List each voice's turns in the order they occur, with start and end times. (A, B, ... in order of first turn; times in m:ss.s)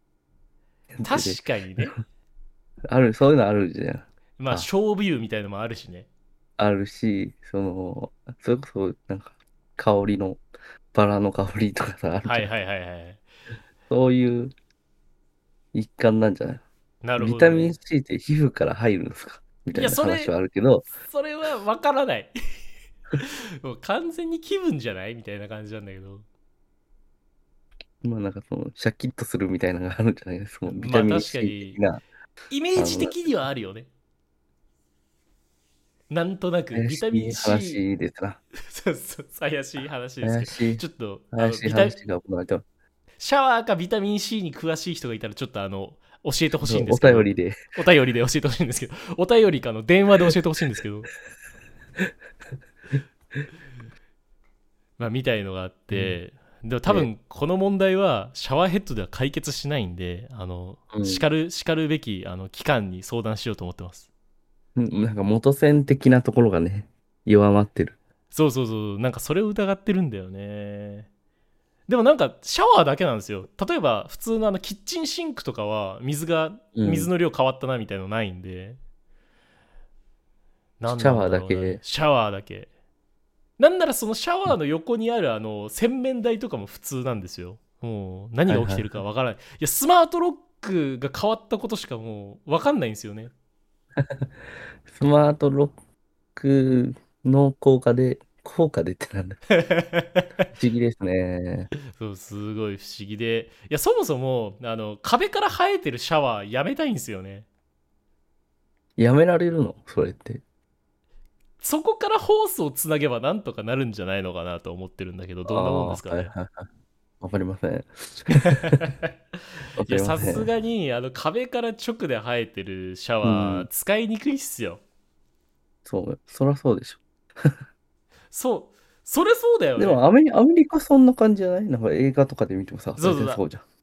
0:01.0-0:01.4 A
0:01.0-0:02.0 B
0:02.9-0:04.7 A
0:04.4-0:06.1 B
0:06.6-0:10.4 A
0:10.9-0:12.5 A
0:12.2-0:13.2 B
0:13.9-0:14.5 A
0:15.7-0:16.6 A
0:17.0-0:17.8 B
0:17.2-0:20.9 A
0:19.7-0:20.3 B
0:21.0-0:22.3 B
0:23.2-0:26.2 B
0:28.0-0:32.0 A
0:30.7-0:31.8 B
0:32.5-0:33.9 B
0:32.8-0:33.2 A
0:36.1-0:37.8 B
0:36.7-0:38.4 A
0:38.6-0:42.0 B
0:40.2-0:42.6 A
0:43.2-0:51.1 B
0:46.6-0:47.6 A
0:55.0-1:04.1 B
0:55.9-0:56.2 A
1:00.9-1:01.2 A
1:04.8-1:08.0 A
1:08.3-1:11.1 B
1:11.9-1:18.8 B
1:16.8-1:17.1 A
1:20.8-1:22.7 B
1:20.9-1:21.8 A
1:23.6-1:33.3 B
1:28.5-1:29.0 A
1:34.0-1:34.3 A
1:34.9-1:35.8 A
1:36.4-1:39.4 A
1:39.5-1:40.5 B
1:40.5-1:41.7 A
1:41.9-1:47.5 B
1:49.0-1:50.4 A
1:51.6-1:56.3 B
1:55.5-1:56.7 A
1:57.2-1:58.9 A
1:58.4-2:04.8 B
1:59.8-2:00.5 A
2:03.2-2:03.7 A
2:05.9-2:07.6 A
2:08.3-2:10.0 B
2:09.8-2:13.6 A
2:13.0-2:13.4 B